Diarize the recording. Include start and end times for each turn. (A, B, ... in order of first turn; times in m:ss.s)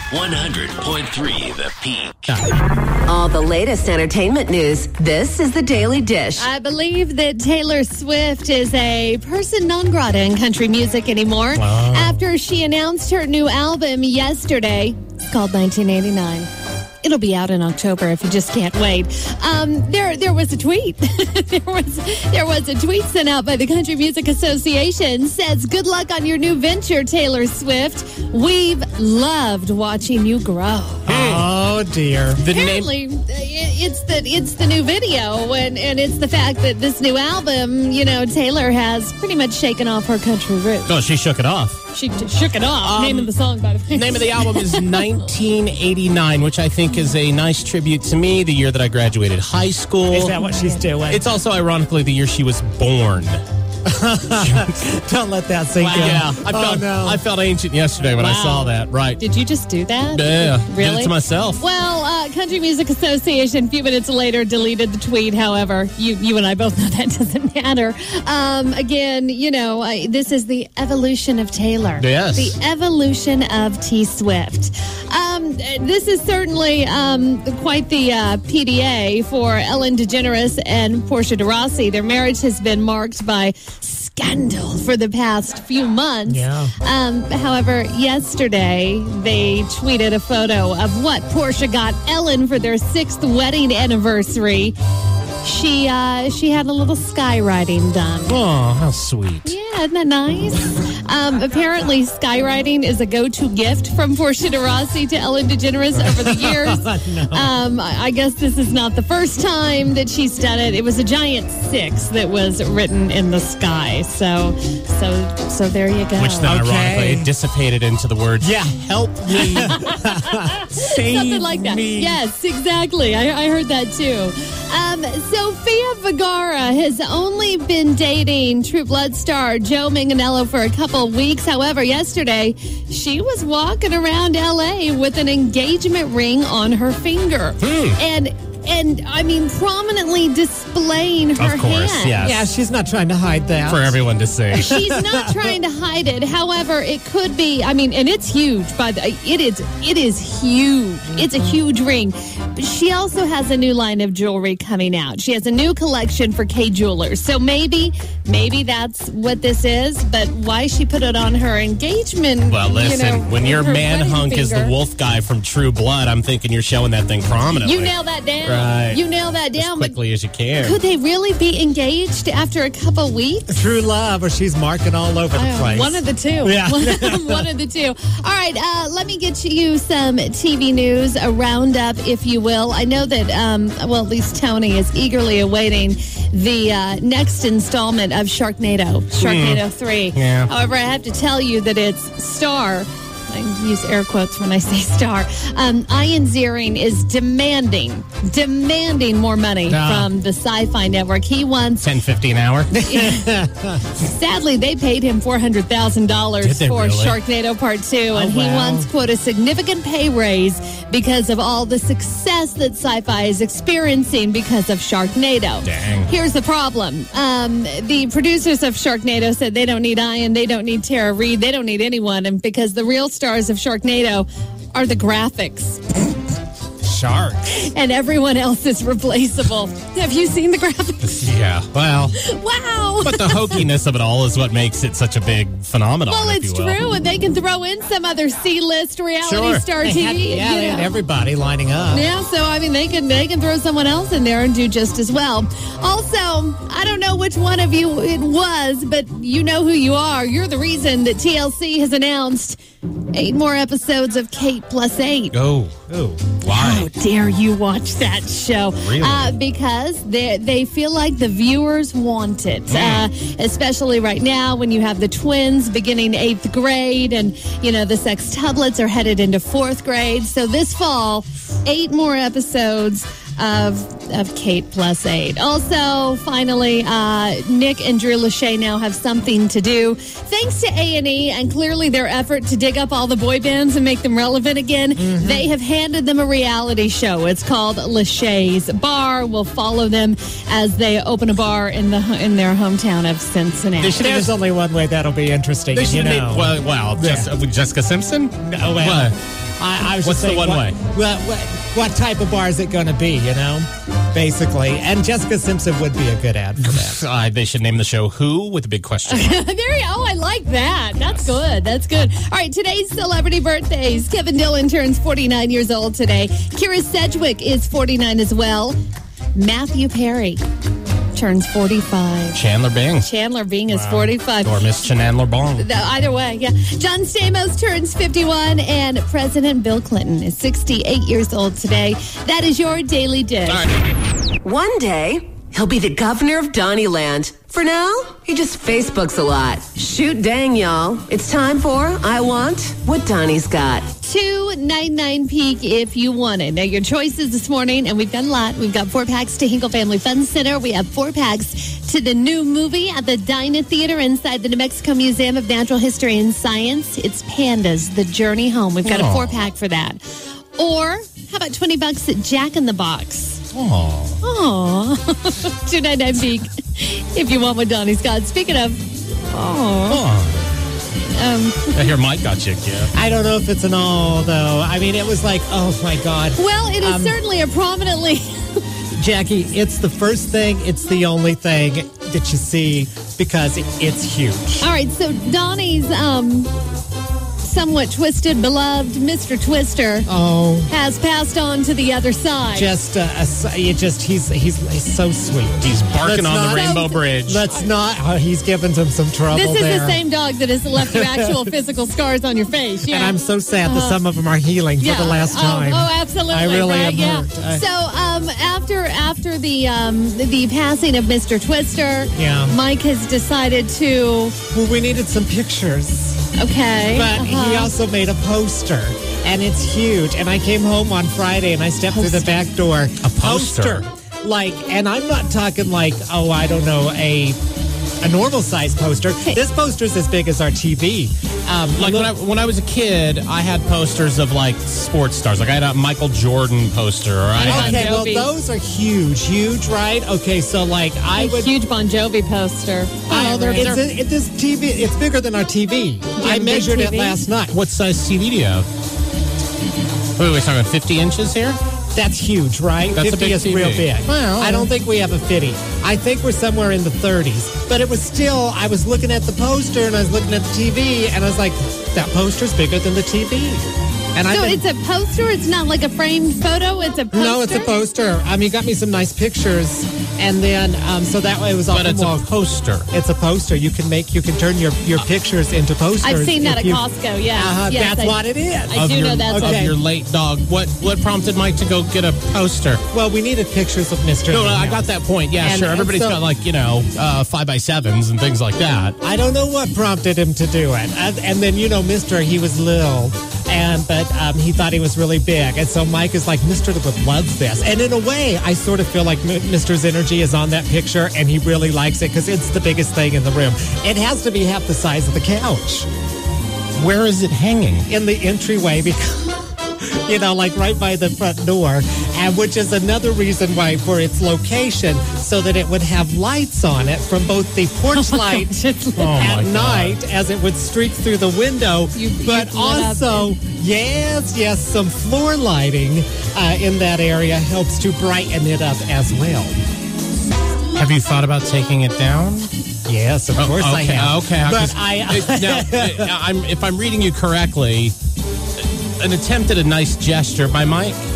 0:00.1-0:02.3 A
0:03.1-0:06.5 B
0:06.4-0:16.5 C
0:11.6-0:12.2 D
0:17.0-0:31.0 C
0:31.1-0:31.5 D
0:31.1-0:32.4 E
0:32.4-0:32.9 D
0:32.5-0:40.9 C
0:40.9-0:41.8 D
0:41.9-0:44.9 C
0:42.8-0:43.3 D
0:43.9-0:50.4 D
0:50.1-0:51.2 E
0:51.1-0:53.4 D
0:53.8-0:57.2 E
0:54.4-0:54.7 D
0:55.8-0:59.2 D
0:55.8-0:56.2 C
0:58.2-1:34.8 C
1:00.1-1:01.6 D
1:12.0-1:12.6 D
1:26.3-1:26.7 E
1:35.4-1:38.4 C
1:38.3-1:39.5 D
1:39.4-1:56.6 C
1:46.0-1:47.5 E
1:56.2-1:59.8 D
1:56.4-1:57.3 E
1:58.4-2:02.2 E
1:59.4-2:22.3 C
2:17.6-2:18.0 D
2:21.4-2:22.5 D
2:22.2-2:24.0 E
2:23.7-2:24.7 D
2:24.6-2:44.7 C
2:24.6-2:25.5 E
2:42.5-2:49.0 D
2:47.6-2:50.0 C
2:49.6-2:50.8 D
2:50.6-2:53.5 C
2:53.5-2:57.4 E
2:55.3-3:21.9 C
3:09.2-3:10.5 D
3:19.7-3:20.0 D
3:21.8-3:22.8 D
3:22.7-3:23.8 E
3:22.8-3:23.3 C
3:23.9-3:45.8 C
3:26.4-3:27.2 D
3:28.1-3:28.9 E
3:35.6-3:36.1 D
3:46.8-3:47.4 E
3:47.5-3:51.2 C
3:51.0-3:52.2 D
3:52.2-3:53.6 C
3:53.0-3:56.8 D
3:56.1-4:00.9 C
3:59.2-3:59.7 D
3:59.8-4:02.1 E
4:01.9-4:12.6 C
4:13.1-4:15.3 C
4:15.3-4:16.9 D
4:15.9-4:16.2 E
4:16.5-4:54.0 C
4:18.7-4:19.4 D
4:22.7-4:23.1 D
4:45.0-4:45.5 E
4:53.8-4:54.3 D
4:54.0-4:57.3 E
4:55.7-4:59.2 D
4:58.4-5:07.0 E
5:00.0-5:00.8 D
5:06.6-5:09.4 D
5:09.1-5:18.8 C
5:19.4-5:20.4 C
5:21.1-5:22.4 C
5:22.3-5:23.1 D
5:23.0-5:24.5 C
5:23.7-5:25.7 D
5:25.6-5:33.6 C
5:34.4-5:43.9 B
5:44.0-6:00.0 C
5:58.8-5:59.4 D
6:00.6-6:03.4 C
6:03.5-6:04.2 D
6:04.2-6:10.0 C
6:09.9-6:10.5 D
6:11.1-6:11.8 C
6:11.7-6:12.9 D
6:12.9-6:17.2 E
6:16.4-6:18.6 C
6:18.9-6:24.7 E
6:24.6-6:26.5 C
6:27.4-6:30.1 C
6:30.1-6:30.7 E
6:30.7-6:32.7 C
6:32.5-6:40.0 E
6:35.6-6:37.5 D
6:36.5-6:37.0 C
6:39.3-6:44.0 C
6:40.8-6:41.5 E
6:42.9-6:47.6 E
6:44.8-6:54.4 C
6:52.1-6:52.6 E
6:54.5-6:56.3 E
6:56.4-6:57.7 C
6:56.9-7:07.4 E
7:01.9-7:02.2 C
7:03.0-7:03.9 D
7:08.0-7:12.1 E
7:11.8-7:17.9 D
7:17.4-7:21.5 E
7:17.4-7:18.3 C
7:21.2-7:23.7 C
7:23.1-7:27.6 E
7:23.1-7:23.9 D
7:26.2-7:27.2 C
7:27.5-7:28.7 D
7:30.2-7:31.6 D
7:31.9-7:44.6 E
7:33.0-7:34.7 D
7:44.3-7:47.8 C
7:47.1-7:52.3 E
7:51.7-7:52.9 D
7:52.9-7:59.8 E
7:56.0-7:59.7 C
7:58.7-8:02.8 D
8:02.9-8:06.2 E
8:04.3-8:09.0 D
8:09.0-8:25.9 E
8:26.8-8:27.9 D
8:27.9-8:38.6 E
8:37.9-8:39.1 C
8:39.0-8:40.0 D
8:39.1-8:49.6 E
8:42.0-8:43.3 C
8:50.7-8:52.5 D
8:52.9-8:56.1 E
8:53.4-8:58.0 D
8:59.0-9:01.0 D